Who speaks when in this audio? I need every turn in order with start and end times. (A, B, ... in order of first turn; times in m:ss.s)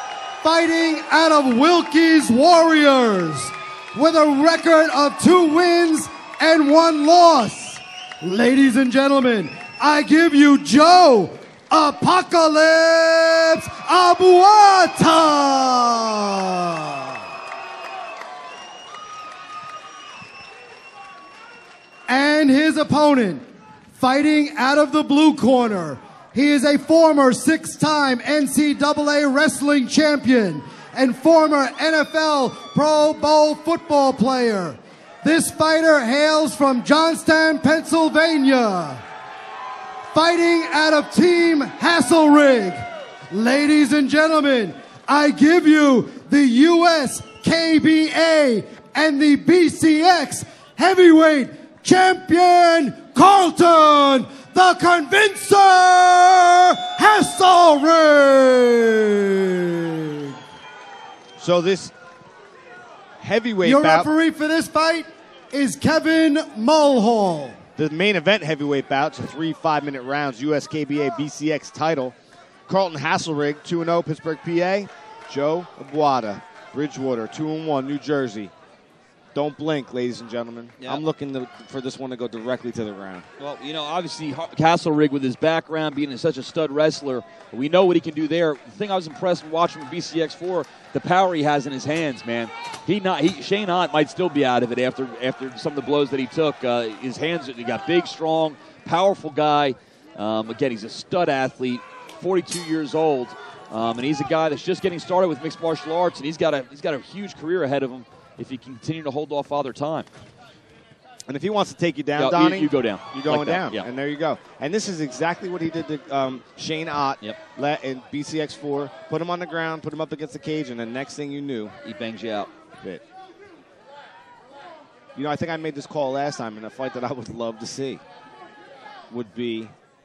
0:00.4-0:17.2 A
0:22.1-0:23.4 A
0:23.9-0:39.0 A
0:40.1-1:00.3 A
1:01.4-1:01.9 B
1:03.2-1:04.1 B
1:03.6-1:07.6 A
1:07.8-1:12.1 B
1:12.7-1:18.5 B
1:19.3-1:23.2 B
1:23.4-1:50.1 C
1:51.3-2:01.7 B
1:52.2-1:53.8 C
2:01.8-2:02.5 C
2:05.1-2:08.0 B
2:09.1-2:09.7 B